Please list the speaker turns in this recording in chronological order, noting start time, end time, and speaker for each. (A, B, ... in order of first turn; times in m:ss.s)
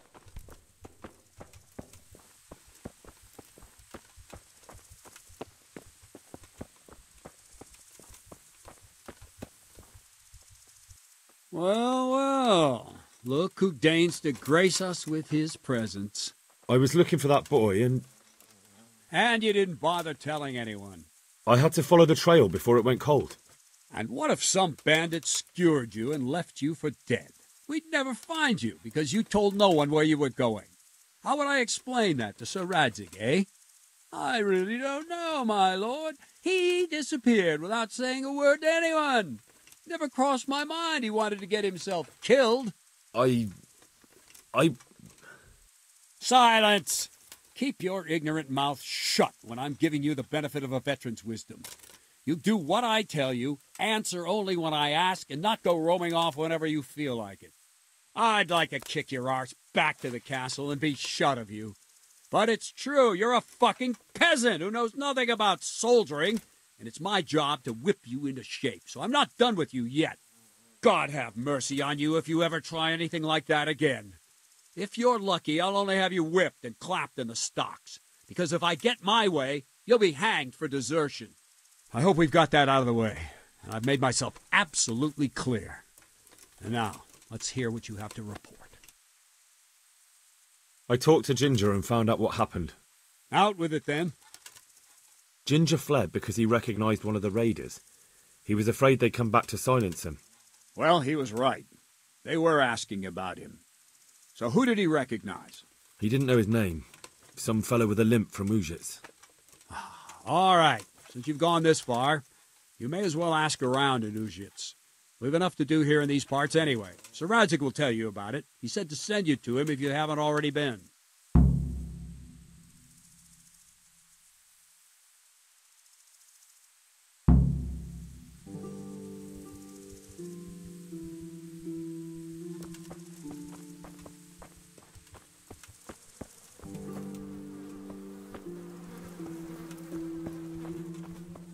0:11.5-0:16.3 A
0:16.7-0:18.1 B
0:19.1-0:21.1 A
0:21.5-0:23.4 B
0:23.9-0:30.7 A
0:31.2-0:33.5 A
0:34.1-0:42.7 A
0:43.1-0:43.5 B
0:46.2-0:51.7 A
0:52.3-0:57.5 A
0:58.2-1:01.8 A
1:02.3-1:10.2 A
1:10.8-1:14.2 A
1:14.8-1:21.4 A
1:21.9-1:25.8 A
1:26.6-1:28.8 A
1:30.9-1:32.8 B
1:33.3-1:34.2 A
1:35.4-1:37.8 B
1:38.4-1:40.2 B
1:40.8-1:41.7 A
1:42.2-1:43.6 A
1:44.4-1:45.6 A
1:46.0-1:49.0 B
1:49.7-1:52.2 A
1:52.8-2:00.9 A